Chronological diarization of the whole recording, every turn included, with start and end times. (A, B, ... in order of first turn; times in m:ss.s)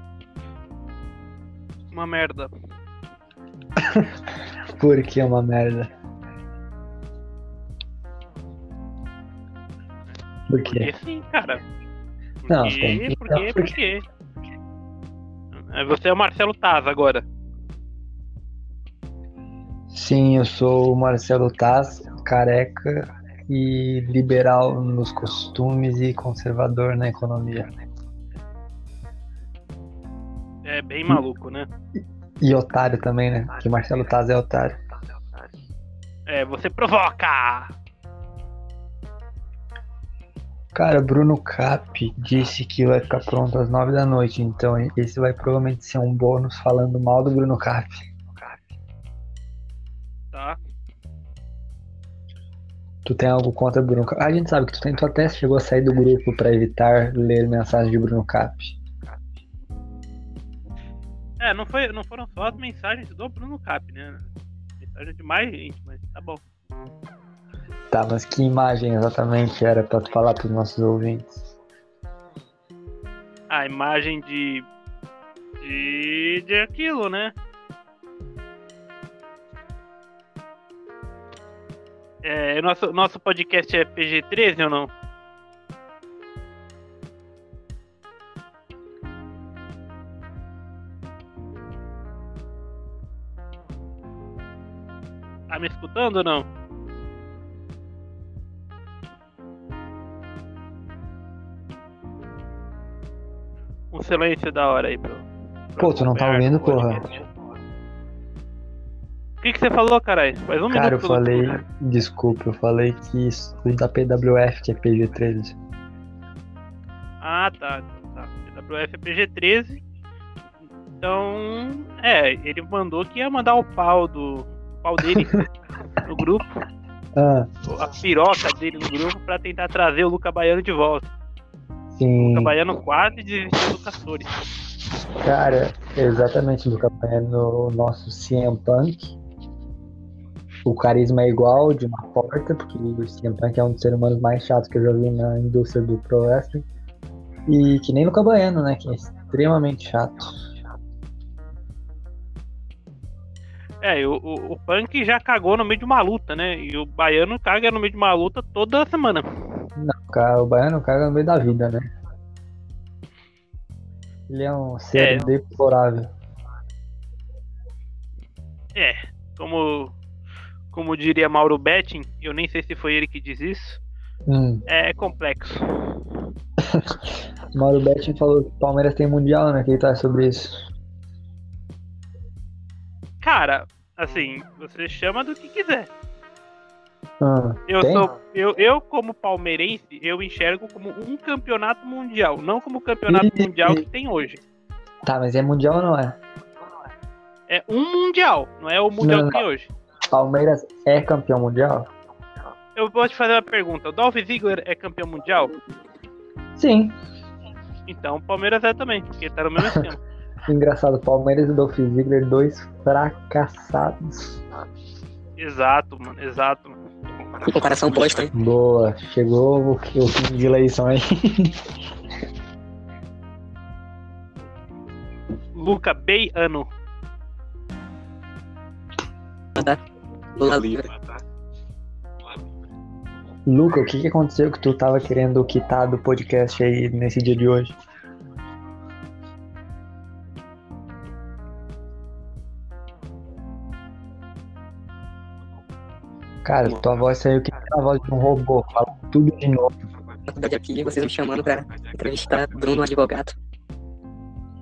0:01.9-0:02.5 A
0:03.8-0:04.2 B
0:04.8-0:05.9 B
0:10.5-0:10.9 B
0:10.6-0:11.6 A
0:12.4-0:14.0 A
0:12.5-0:13.8 B
0:15.6-0:17.2 A
0:19.9-0:27.7 B
0:30.6-0:31.7 A
0:32.0-0:34.8 B
0:36.3-0:37.7 A
0:40.7-0:48.1 B
0:50.3-0:50.6 A
0:53.0-0:58.8 B
1:01.4-1:04.2 A
1:04.8-1:06.4 A
1:07.9-1:11.4 B
1:13.5-1:14.7 A
1:15.6-1:17.3 A
1:22.2-1:24.9 A
1:35.5-1:36.5 A
1:43.9-1:47.2 A
1:45.8-1:47.0 B
1:49.4-1:51.6 A
1:50.7-1:55.6 B
1:57.2-1:59.8 A
2:01.0-2:05.5 A
2:06.0-2:06.6 A
2:07.2-2:07.5 B
2:07.7-2:11.1 A
2:11.9-2:12.5 B
2:12.2-2:14.3 A
2:15.2-2:19.2 B
2:20.6-2:26.7 B
2:27.5-2:30.4 B
2:33.8-2:39.3 A
2:39.8-2:41.9 B
2:44.3-2:46.1 B
2:45.0-2:45.3 A
2:48.8-2:50.0 A
2:50.7-2:53.8 A
2:54.3-2:54.6 B
2:54.7-2:56.1 A
2:56.6-2:57.0 B
2:57.5-3:00.6 B
3:03.2-3:05.9 A
3:07.2-3:08.1 B
3:07.7-3:14.4 A
3:13.1-3:13.8 B
3:15.0-3:16.2 B
3:17.5-3:19.7 A
3:19.0-3:19.4 B
3:20.1-3:21.9 B
3:22.8-3:25.5 A
3:26.6-3:27.0 B
3:27.9-3:30.0 A
3:30.5-3:34.4 B
3:35.4-3:36.8 A
3:37.4-3:38.3 C
3:38.3-3:41.7 B
3:45.6-3:46.7 A
3:50.4-3:50.9 C
3:53.5-3:57.8 B
4:06.4-4:09.8 B
4:10.3-4:13.4 C